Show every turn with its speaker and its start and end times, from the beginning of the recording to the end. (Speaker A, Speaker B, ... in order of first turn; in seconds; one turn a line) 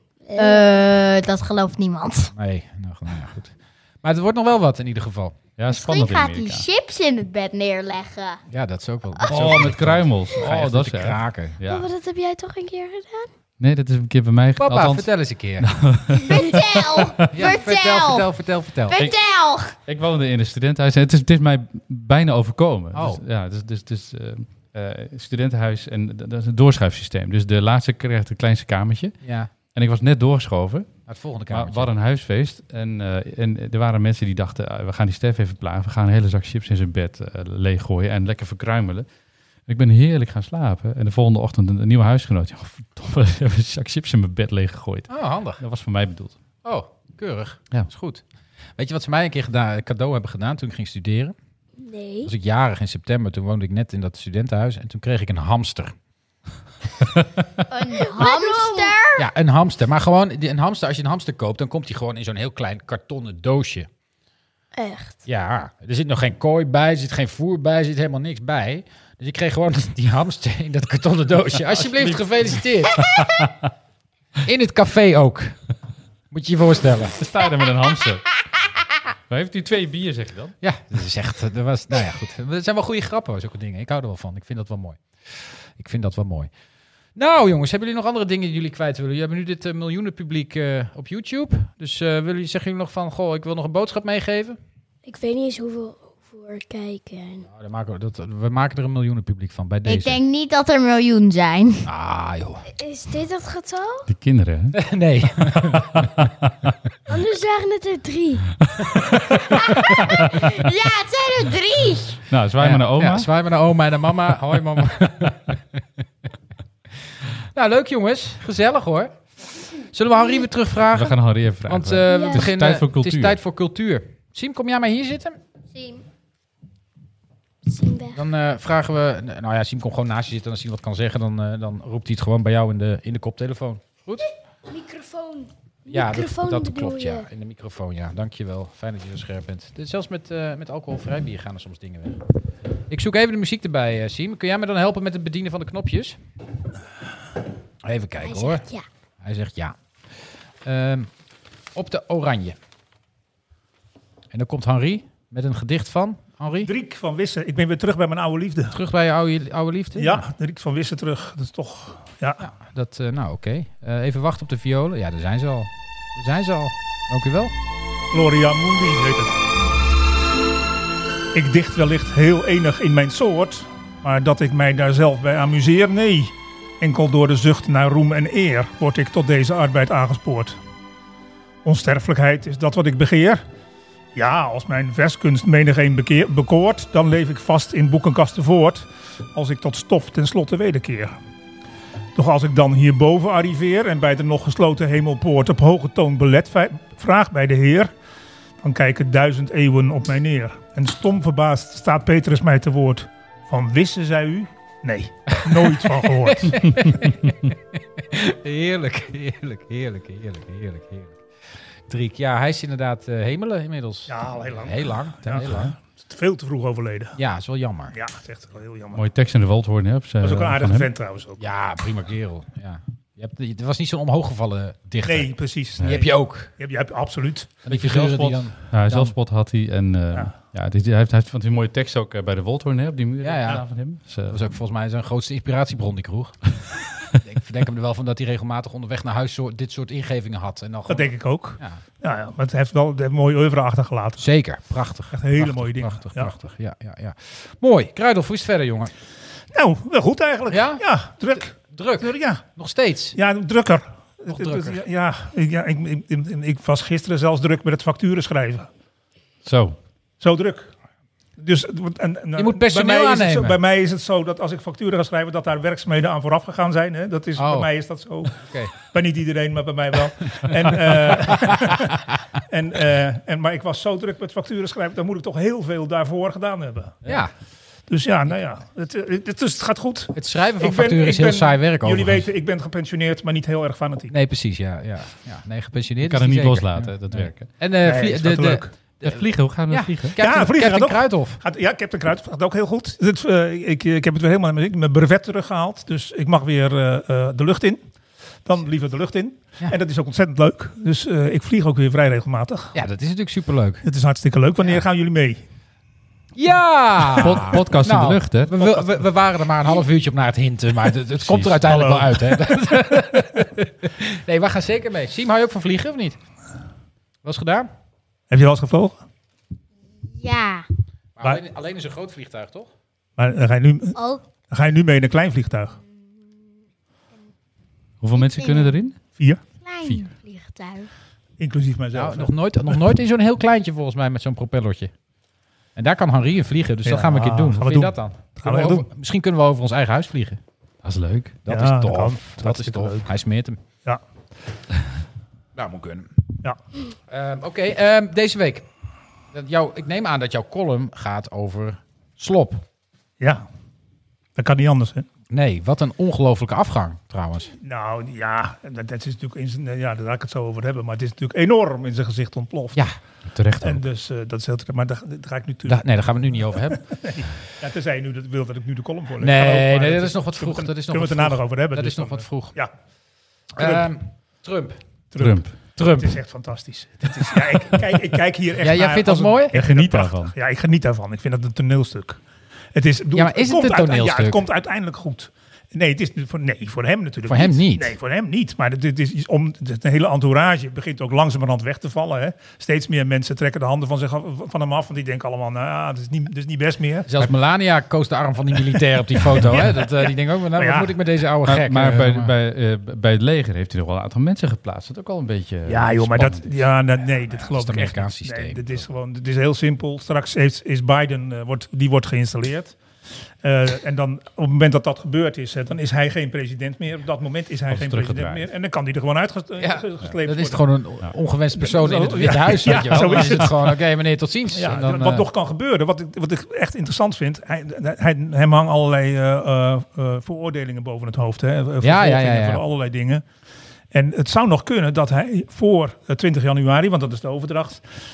Speaker A: 0.3-0.7
Speaker B: 0.4-2.3
Speaker C: 2.3-5.4
Speaker D: 5.6-6.7
Speaker B: 5.7-8.4
Speaker C: 8.5-11.6
Speaker D: 9.3-11.9
Speaker A: 11.7-13.3
Speaker D: 13.6-16.6
Speaker C: 14.6-15.7
Speaker B: 16.3-18.3
Speaker C: 17.3-19.0
Speaker B: 18.9-19.8
Speaker D: 19.8-31.0
Speaker C: 22.9-23.2
Speaker C: 29.2-29.5
Speaker C: 31.1-31.9
Speaker D: 31.5-39.1
Speaker D: 39.7-46.4
Speaker C: 45.1-45.6
Speaker C: 46.6-48.2
Speaker C: 48.8-51.4
Speaker A: 51.8-52.3
Speaker C: 52.2-56.0
Speaker B: 57.7-59.3
Speaker A: 58.0-59.0
Speaker C: 59.2-63.9
Speaker A: 64.8-65.2
Speaker C: 65.3-73.2
Speaker D: 71.8-72.2
Speaker D: 73.1-73.7
Speaker C: 74.5-75.6
Speaker C: 76.3-77.2
Speaker D: 77.2-78.2
Speaker D: 79.3-80.5
Speaker C: 80.6-86.5
Speaker C: 87.2-94.6
Speaker A: 95.1-97.5
Speaker C: 97.5-100.2
Speaker B: 99.9-101.9
Speaker C: 101.8-102.6
Speaker A: 102.8-104.1
Speaker D: 104.1-104.8
Speaker C: 104.8-105.9
Speaker D: 105.6-106.7
Speaker A: 107.1-108.5
Speaker B: 109.8-112.2
Speaker D: 112.3-113.3
Speaker C: 112.6-115.8
Speaker C: 117.5-119.2
Speaker C: 119.8-125.4
Speaker D: 120.9-123.4
Speaker A: 122.1-122.4
Speaker B: 125.7-126.0
Speaker A: 127.7-128.2
Speaker C: 128.1-134.3
Speaker A: 134.7-137.3
Speaker C: 135.9-142.2
Speaker C: 142.9-146.2
Speaker C: 147.8-148.7
Speaker A: 148.2-148.8
Speaker C: 149.2-151.1
Speaker C: 151.7-152.6
Speaker C: 154.3-156.7
Speaker E: 156.6-158.8
Speaker C: 158.7-160.3
Speaker E: 160.0-162.4
Speaker C: 162.4-167.5
Speaker E: 168.1-169.4
Speaker E: 171.3-180.6
Speaker E: 181.6-183.4
Speaker E: 184.2-191.2
Speaker E: 192.2-197.9
Speaker E: 198.6-206.6
Speaker C: 205.5-211.2
Speaker C: 211.9-215.8
Speaker E: 214.1-217.2
Speaker C: 217.2-218.0
Speaker E: 217.9-219.1
Speaker D: 218.9-220.9
Speaker E: 220.2-221.4
Speaker C: 221.4-226.5
Speaker E: 225.0-228.5
Speaker C: 227.7-229.1
Speaker D: 228.7-234.4
Speaker C: 233.2-233.7
Speaker C: 234.3-236.5
Speaker C: 237.2-241.8
Speaker E: 240.9-244.3
Speaker C: 244.2-248.9
Speaker E: 245.1-246.3
Speaker E: 249.5-252.4
Speaker C: 250.5-250.8
Speaker C: 251.4-253.2
Speaker E: 253.1-258.7
Speaker C: 254.3-254.8
Speaker D: 259.4-259.8
Speaker E: 260.2-260.7
Speaker E: 261.4-277.0
Speaker C: 262.4-263.6
Speaker C: 267.4-267.7
Speaker C: 268.4-268.7
Speaker C: 277.1-277.3
Speaker E: 277.9-284.1
Speaker C: 280.1-282.3
Speaker C: 284.1-291.4
Speaker D: 286.0-287.6
Speaker E: 287.8-288.7
Speaker D: 289.0-290.2
Speaker E: 290.2-297.8
Speaker E: 298.4-302.7
Speaker C: 302.7-303.9
Speaker E: 303.8-305.4
Speaker C: 306.4-316.2
Speaker D: 307.1-308.7
Speaker D: 311.2-311.6
Speaker E: 311.6-312.5
Speaker C: 317.2-317.7
Speaker E: 318.3-319.0
Speaker B: 320.1-320.6
Speaker C: 321.2-322.7
Speaker E: 323.2-323.9
Speaker B: 323.9-324.2
Speaker E: 324.5-325.8
Speaker D: 328.0-329.1
Speaker B: 328.1-328.8
Speaker E: 329.2-329.4
Speaker B: 329.6-330.9
Speaker D: 329.8-330.1
Speaker E: 331.4-332.3
Speaker C: 331.9-334.9
Speaker C: 335.8-340.4
Speaker E: 336.8-338.8
Speaker D: 340.8-341.5
Speaker C: 341.4-343.6
Speaker E: 341.5-343.2
Speaker C: 345.6-346.1
Speaker C: 347.1-348.7
Speaker C: 349.3-352.6
Speaker E: 353.2-353.4
Speaker E: 354.4-355.1
Speaker C: 355.3-357.5
Speaker E: 357.6-362.8
Speaker D: 363.3-363.8
Speaker E: 363.6-365.8
Speaker C: 365.7-366.8
Speaker E: 366.7-372.7
Speaker C: 369.2-372.6
Speaker E: 373.5-373.9
Speaker C: 373.5-374.8
Speaker E: 375.1-382.2
Speaker D: 375.2-375.6
Speaker C: 375.8-376.2
Speaker C: 377.3-377.5
Speaker C: 378.6-379.6
Speaker D: 379.5-380.3
Speaker E: 382.7-397.3
Speaker C: 383.1-384.4
Speaker C: 387.2-388.0
Speaker C: 397.1-402.3
Speaker E: 399.3-401.0
Speaker D: 401.5-406.6
Speaker E: 405.7-412.8
Speaker C: 407.3-408.8
Speaker E: 413.4-420.6
Speaker D: 417.7-418.5
Speaker C: 419.6-425.3
Speaker E: 421.6-423.8
Speaker D: 422.7-423.2
Speaker E: 424.5-433.2
Speaker C: 431.8-432.6
Speaker E: 433.9-437.9